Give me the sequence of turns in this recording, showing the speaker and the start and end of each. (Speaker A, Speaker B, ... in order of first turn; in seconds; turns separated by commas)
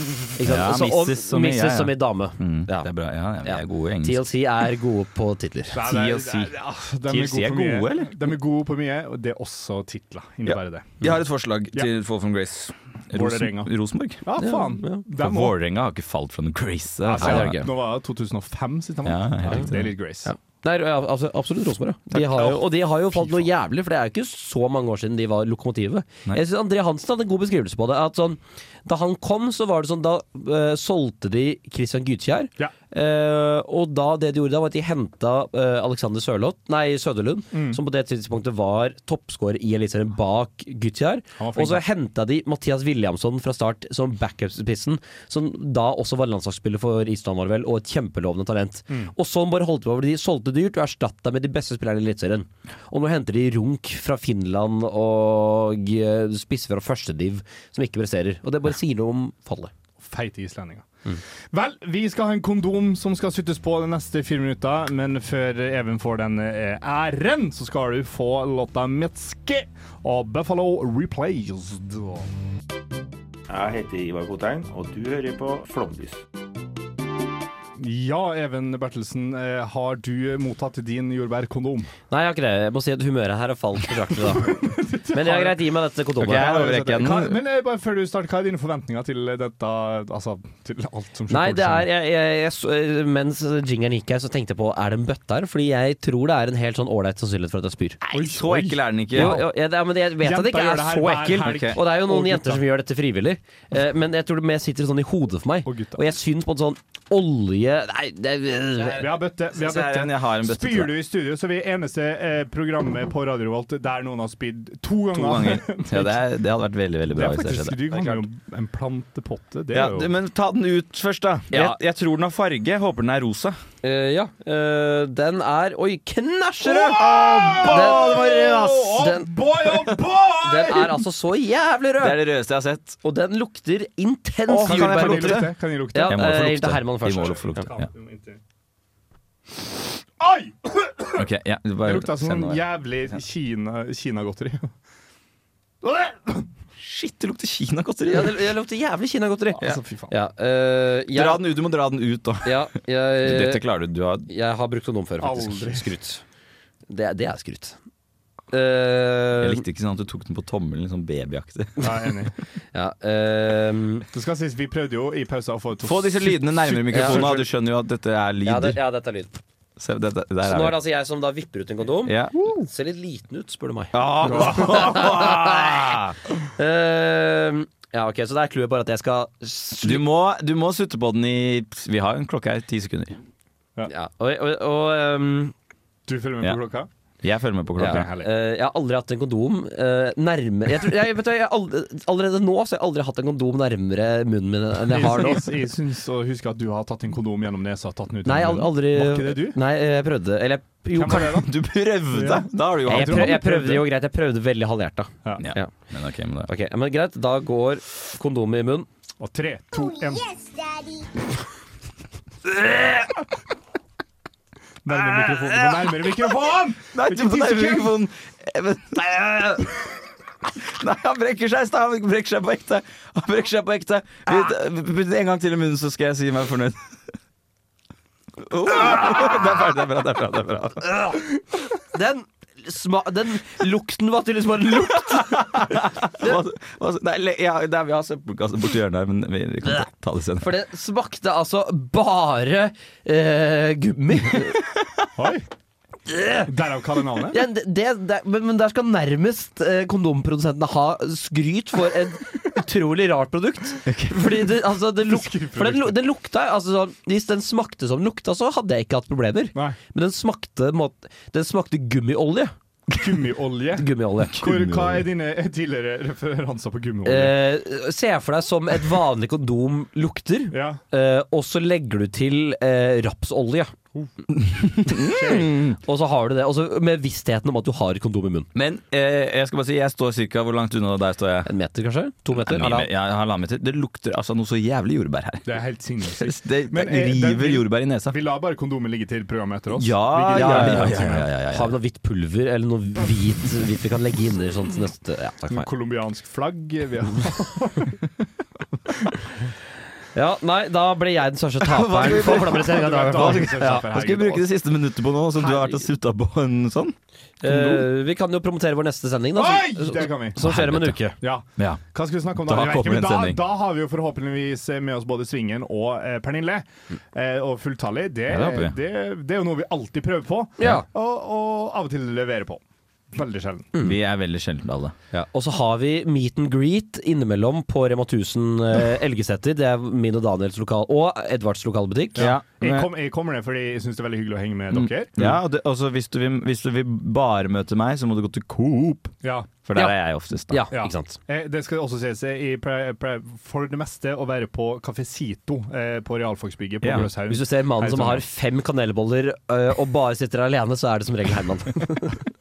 Speaker A: 0.4-2.9, Speaker B: 0.4-4.3, Speaker A: 3.5-5.8, Speaker C: 5.7-11.1, Speaker B: 5.8-6.5, Speaker B: 7.1-8.2, Speaker B: 10.4-14.2, Speaker C: 13.1-13.7, Speaker C: 14.2-15.6, Speaker A: 14.4-15.0, Speaker B: 15.2-17.6, Speaker C: 17.0-20.3, Speaker A: 17.2-17.7, Speaker B: 19.1-19.9, Speaker A: 20.3-59.7, Speaker B: 22.1-22.6, Speaker C: 23.1-23.4, Speaker C: 37.5-37.8, Speaker C: 41.4-41.8, Speaker C: 60.0-60.9, Speaker C: 61.5-72.3, Speaker D: 73.5-76.2, Speaker C: 77.8-81.9, Speaker A: 82.1-84.6, Speaker C: 84.4-85.7, Speaker A: 85.1-86.6, Speaker B: 86.2-87.4, Speaker C: 86.3-91.9, Speaker A: 91.3-98.0, Speaker B: 98.1-99.4, Speaker C: 98.1-99.5, Speaker A: 99.2-109.1, Speaker C: 100.2-102.6, Speaker B: 101.4-101.8, Speaker C: 105.7-106.1, Speaker C: 109.0-116.2, Speaker B: 109.5-110.9, Speaker B: 115.1-117.8, Speaker C: 117.1-120.1, Speaker B: 119.7-123.6, Speaker A: 121.5-121.8, Speaker A: 123.8-129.3, Speaker C: 126.7-131.0, Speaker B: 127.0-129.1, Speaker A: 130.4-132.2, Speaker B: 132.0-133.0, Speaker A: 133.0-137.6, Speaker B: 134.5-135.6, Speaker C: 134.6-136.4, Speaker B: 136.1-137.8, Speaker C: 137.6-138.4, Speaker C: 140.2-141.3, Speaker B: 141.2-142.6, Speaker C: 141.8-144.7, Speaker C: 145.8-146.5, Speaker B: 146.8-148.5, Speaker A: 148.1-151.4, Speaker C: 149.6-150.1, Speaker B: 151.1-152.7, Speaker A: 152.4-153.6, Speaker B: 153.2-154.3, Speaker A: 154.3-156.2, Speaker C: 155.2-155.9, Speaker A: 156.9-157.8, Speaker A: 158.5-159.6, Speaker B: 159.4-161.9, Speaker C: 161.8-162.3, Speaker A: 162.7-164.1, Speaker C: 164.1-167.4, Speaker B: 165.8-168.8, Speaker A: 166.9-167.4, Speaker A: 168.4-169.3, Speaker B: 169.8-170.8, Speaker A: 170.5-175.9, Speaker B: 172.1-172.3, Speaker C: 172.3-172.7, Speaker B: 173.9-176.1, Speaker C: 174.2-175.0, Speaker A: 176.6-180.0, Speaker B: 179.8-183.2, Speaker A: 183.9-185.5, Speaker C: 186.1-186.9, Speaker B: 187.2-188.1, Speaker C: 187.8-188.3, Speaker A: 187.8-195.4, Speaker C: 194.9-199.6, Speaker A: 198.2-201.4, Speaker C: 200.9-201.5, Speaker B: 201.3-203.6, Speaker C: 202.1-203.8, Speaker A: 202.9-205.7, Speaker B: 205.4-206.5, Speaker A: 206.5-208.9, Speaker C: 209.2-210.8, Speaker C: 214.8-218.0, Speaker B: 215.3-216.2, Speaker B: 216.9-219.7, Speaker B: 220.6-226.8, Speaker B: 228.5-230.9, Speaker A: 231.8-235.6, Speaker B: 235.2-240.5, Speaker A: 240.4-244.6, Speaker C: 245.2-245.5, Speaker A: 246.1-246.5, Speaker C: 246.5-247.4, Speaker A: 247.3-262.5, Speaker B: 253.9-254.5, Speaker C: 255.1-256.0, Speaker C: 262.9-267.4, Speaker A: 263.8-264.4, Speaker B: 264.4-265.1, Speaker A: 267.1-273.7, Speaker C: 270.5-270.8, Speaker B: 274.3-275.8, Speaker C: 275.0-275.6, Speaker A: 275.7-278.5, Speaker B: 278.6-281.5, Speaker A: 281.5-282.9, Speaker B: 282.3-285.5, Speaker C: 285.5-291.3, Speaker B: 286.2-288.2, Speaker B: 289.8-291.7, Speaker A: 290.3-295.7, Speaker C: 295.5-298.0, Speaker A: 300.1-303.9, Speaker B: 301.6-306.9, Speaker C: 302.0-304.5, Speaker A: 305.4-305.8, Speaker A: 307.4-311.2, Speaker C: 307.4-307.9, Speaker C: 309.4-310.4, Speaker B: 310.4-311.0, Speaker C: 311.2-323.7, Speaker B: 312.4-313.4, Speaker B: 318.3-318.8, Speaker A: 320.6-320.9, Speaker B: 323.8-324.9, Speaker A: 325.1-332.3, Speaker C: 332.2-335.1, Speaker B: 332.2-332.9, Speaker B: 334.7-340.7, Speaker C: 339.2-339.5, Speaker A: 340.5-341.2, Speaker C: 340.7-348.2, Speaker B: 346.8-347.1, Speaker A: 347.3-352.2